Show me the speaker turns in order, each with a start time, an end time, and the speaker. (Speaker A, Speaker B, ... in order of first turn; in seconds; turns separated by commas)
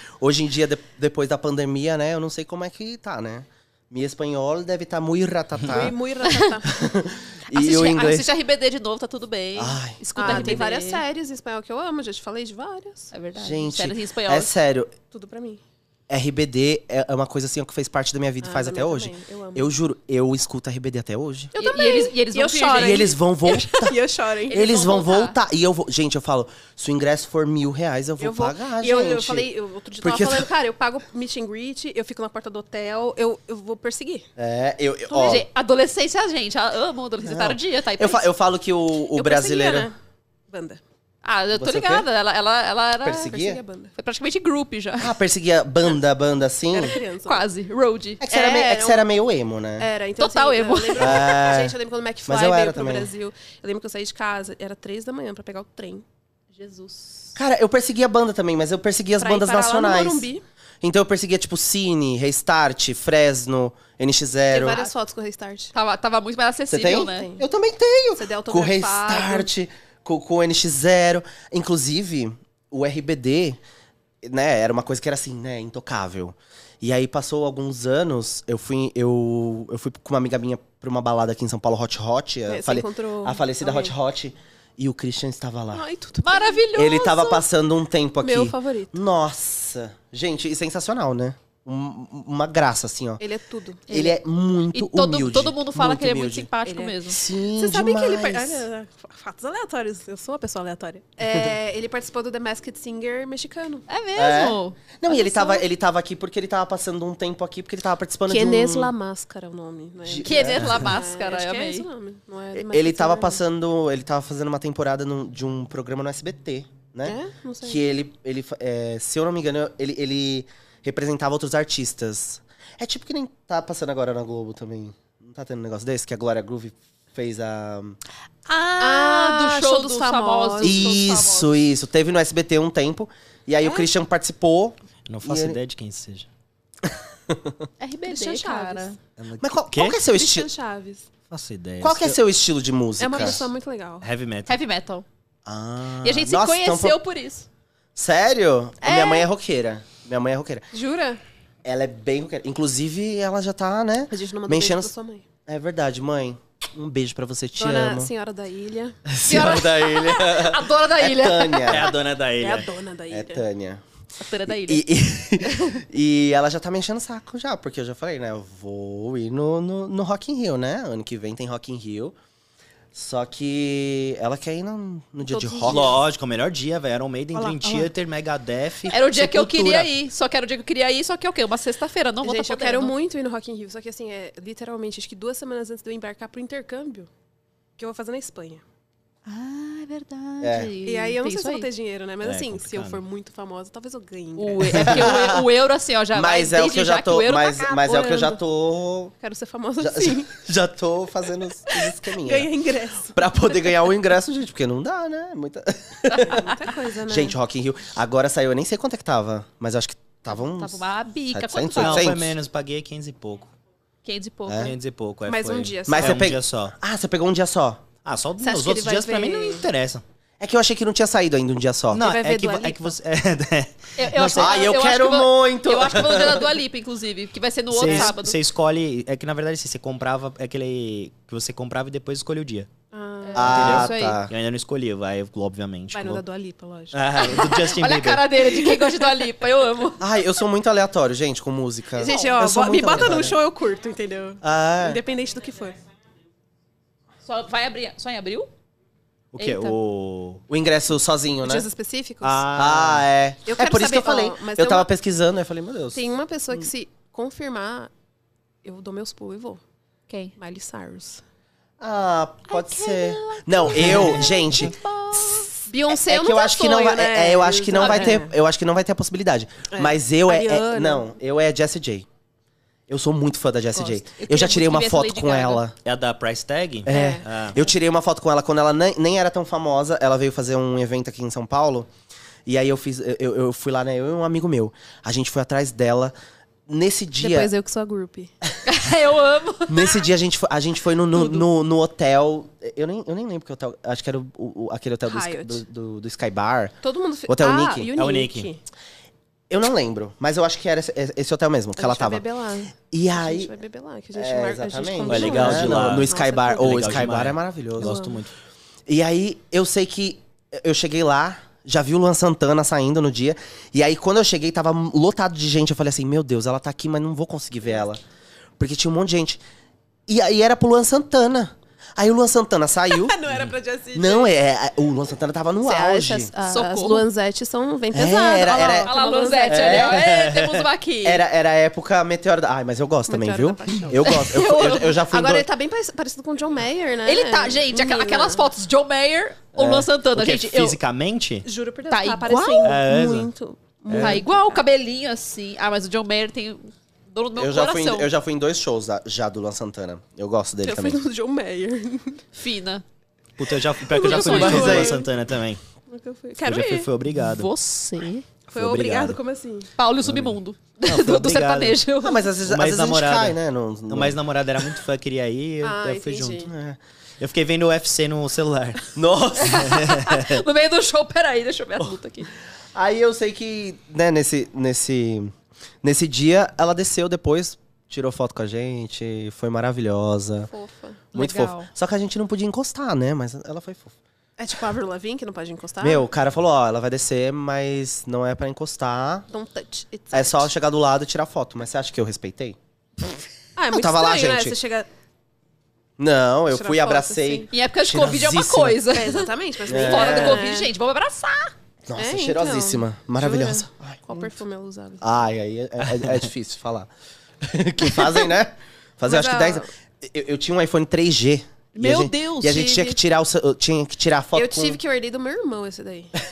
Speaker A: 0.2-5.9, Speaker B: 5.7-6.8, Speaker C: 6.2-6.5, Speaker A: 6.7-8.3, Speaker C: 7.5-11.0, Speaker A: 9.6-10.6, Speaker B: 10.1-13.1, Speaker C: 13.1-14.5, Speaker A: 13.4-14.9, Speaker B: 15.1-15.6, Speaker A: 16.1-21.5, Speaker B: 18.4-19.7, Speaker B: 21.5-24.9, Speaker C: 21.6-23.9, Speaker A: 22.7-24.0, Speaker C: 24.5-25.4, Speaker A: 24.5-29.5, Speaker B: 28.2-34.3, Speaker A: 30.0-30.5, Speaker A: 34.4-35.4, Speaker B: 35.1-35.4, Speaker C: 35.2-38.2, Speaker A: 37.2-39.9, Speaker B: 39.1-40.0, Speaker B: 40.5-40.8, Speaker C: 41.2-43.4, Speaker A: 41.6-42.0, Speaker A: 43.0-43.6, Speaker B: 43.3-43.9, Speaker C: 44.0-45.1, Speaker A: 45.0-47.0, Speaker B: 46.7-47.5, Speaker C: 47.2-48.2, Speaker A: 48.2-49.9, Speaker B: 48.3-49.1, Speaker B: 49.8-56.0, Speaker C: 50.2-51.5, Speaker A: 51.0-51.7, Speaker A: 52.3-53.1, Speaker C: 56.5-57.4, Speaker A: 57.4-60.3, Speaker B: 59.2-60.4, Speaker A: 60.8-64.8, Speaker B: 64.5-65.7, Speaker C: 65.7-67.3, Speaker A: 66.7-73.6, Speaker B: 66.9-67.4, Speaker B: 68.2-69.5, Speaker A: 74.2-85.8, Speaker B: 82.5-83.9, Speaker B: 85.7-86.7, Speaker C: 86.2-87.4, Speaker A: 86.7-93.2, Speaker B: 88.2-89.0, Speaker B: 93.2-93.8, Speaker C: 93.9-94.2, Speaker A: 93.9-96.5, Speaker C: 94.7-97.2, Speaker B: 96.6-103.8, Speaker A: 97.1-98.7, Speaker C: 103.9-105.6, Speaker A: 104.1-108.9, Speaker B: 108.3-113.4, Speaker A: 110.0-110.7, Speaker C: 110.2-111.8, Speaker A: 112.5-128.0, Speaker B: 117.0-117.8, Speaker C: 128.5-131.2, Speaker B: 128.8-131.4, Speaker A: 130.6-135.6, Speaker B: 133.6-133.9, Speaker D: 135.1-136.3, Speaker A: 137.3-137.6, Speaker C: 137.8-139.0, Speaker B: 138.1-139.0, Speaker D: 139.2-140.0, Speaker A: 139.4-140.5, Speaker B: 139.9-141.1, Speaker D: 141.3-142.2, Speaker A: 141.8-143.5, Speaker B: 143.0-144.1, Speaker D: 144.0-144.6, Speaker C: 144.5-145.0, Speaker A: 145.4-147.0, Speaker C: 146.0-147.4, Speaker A: 147.9-150.7, Speaker C: 148.8-149.3, Speaker B: 150.7-151.2, Speaker A: 151.6-154.9, Speaker B: 154.1-155.2, Speaker A: 155.4-158.1, Speaker B: 157.6-159.0, Speaker A: 159.1-161.9, Speaker C: 159.2-161.9, Speaker D: 161.7-162.7, Speaker B: 162.3-163.4, Speaker A: 163.1-163.8, Speaker C: 164.2-164.9, Speaker A: 164.5-172.1, Speaker C: 165.4-165.8, Speaker A: 172.9-175.9, Speaker C: 175.3-175.9, Speaker B: 175.3-175.9, Speaker D: 175.7-179.9, Speaker B: 177.3-177.9, Speaker C: 178.9-182.9, Speaker B: 182.2-187.1, Speaker B: 187.8-188.6, Speaker C: 189.2-191.7, Speaker A: 190.4-190.7, Speaker B: 190.8-195.1, Speaker D: 192.2-193.0, Speaker C: 194.3-198.3, Speaker A: 194.7-195.5, Speaker A: 196.1-199.1, Speaker B: 197.8-198.4, Speaker B: 199.2-200.3, Speaker A: 199.8-202.5, Speaker B: 201.7-203.3, Speaker A: 203.1-212.3, Speaker C: 206.1-206.3, Speaker B: 206.3-207.4, Speaker C: 210.3-212.1, Speaker D: 211.8-213.5, Speaker C: 214.0-214.7, Speaker A: 214.5-214.7, Speaker D: 214.5-216.8, Speaker B: 215.2-216.3, Speaker A: 215.9-217.8, Speaker D: 218.0-220.0, Speaker B: 218.4-219.7, Speaker A: 220.4-222.0, Speaker D: 221.9-224.6, Speaker B: 221.9-222.9, Speaker C: 223.9-228.4, Speaker A: 224.3-226.5, Speaker D: 227.7-232.7, Speaker B: 232.9-234.0, Speaker C: 233.2-234.2, Speaker A: 233.3-234.3, Speaker D: 233.4-236.2, Speaker B: 235.9-237.1, Speaker D: 236.9-238.2, Speaker C: 237.2-240.0, Speaker B: 238.6-239.1, Speaker A: 240.0-243.4, Speaker B: 241.9-245.8, Speaker C: 242.0-242.4, Speaker A: 244.4-245.0, Speaker C: 247.2-248.5, Speaker D: 249.3-250.4, Speaker C: 249.4-249.7, Speaker A: 250.5-251.6, Speaker B: 251.4-252.5, Speaker D: 252.2-253.1, Speaker A: 252.5-256.0, Speaker B: 253.4-254.9, Speaker B: 255.9-257.9, Speaker B: 258.6-259.6, Speaker B: 260.4-261.2, Speaker A: 261.8-272.1, Speaker C: 262.5-265.6, Speaker B: 265.6-268.3, Speaker C: 267.8-268.2, Speaker B: 269.7-271.1, Speaker A: 272.9-275.8, Speaker C: 273.7-275.6, Speaker D: 275.8-277.6, Speaker A: 276.9-281.9, Speaker B: 276.9-277.6, Speaker A: 282.4-286.1, Speaker A: 286.7-287.5, Speaker B: 287.2-288.3, Speaker C: 288.6-290.0, Speaker A: 289.7-296.7, Speaker B: 295.0-295.6, Speaker B: 296.8-298.6, Speaker A: 297.3-297.9, Speaker D: 297.9-298.5, Speaker A: 299.5-302.2, Speaker B: 301.8-307.1, Speaker A: 302.9-303.5, Speaker A: 304.1-308.0, Speaker D: 305.1-308.3, Speaker B: 307.8-308.2, Speaker A: 308.9-318.0, Speaker A: 318.6-319.4, Speaker A: 320.1-323.2, Speaker B: 322.9-324.3, Speaker A: 323.9-326.3, Speaker B: 325.6-330.0, Speaker C: 326.4-327.0, Speaker A: 327.9-328.9, Speaker C: 328.7-331.2, Speaker A: 329.4-335.5, Speaker B: 333.1-338.5, Speaker C: 334.0-335.0, Speaker C: 337.0-340.8, Speaker A: 339.6-339.9, Speaker D: 340.1-341.5, Speaker B: 341.4-344.6, Speaker C: 341.9-342.8, Speaker D: 342.6-343.3, Speaker D: 343.9-344.2, Speaker C: 343.9-348.1, Speaker A: 347.4-351.0, Speaker B: 350.6-352.2, Speaker C: 352.3-352.8, Speaker D: 353.4-355.6, Speaker B: 353.9-355.1, Speaker C: 353.9-354.9, Speaker A: 354.4-354.9, Speaker B: 355.9-356.9, Speaker D: 356.4-357.5, Speaker C: 357.1-358.2, Speaker B: 358.5-359.7, Speaker D: 358.5-359.2, Speaker C: 359.8-362.2, Speaker D: 360.0-361.8, Speaker A: 362.0-364.2, Speaker D: 362.4-363.4, Speaker D: 363.9-366.5, Speaker B: 365.6-366.5, Speaker A: 366.4-366.8, Speaker D: 367.2-368.9, Speaker A: 368.9-369.8, Speaker C: 369.4-372.3, Speaker D: 369.5-370.4, Speaker A: 372.7-380.5, Speaker B: 380.5-381.0, Speaker C: 381.1-381.7, Speaker A: 381.1-383.9, Speaker B: 384.4-386.1, Speaker A: 385.8-389.3, Speaker B: 389.3-390.5, Speaker A: 390.1-392.6, Speaker B: 393.6-394.9, Speaker A: 393.7-394.6, Speaker A: 396.0-398.9, Speaker B: 396.5-397.5, Speaker C: 397.5-401.5, Speaker B: 398.9-400.7, Speaker A: 399.7-400.4, Speaker A: 401.9-404.3, Speaker B: 402.0-405.1, Speaker A: 405.0-406.9, Speaker D: 405.9-406.2, Speaker A: 407.4-414.8, Speaker B: 407.9-408.2, Speaker B: 409.1-409.7, Speaker C: 411.7-413.0, Speaker B: 414.3-416.1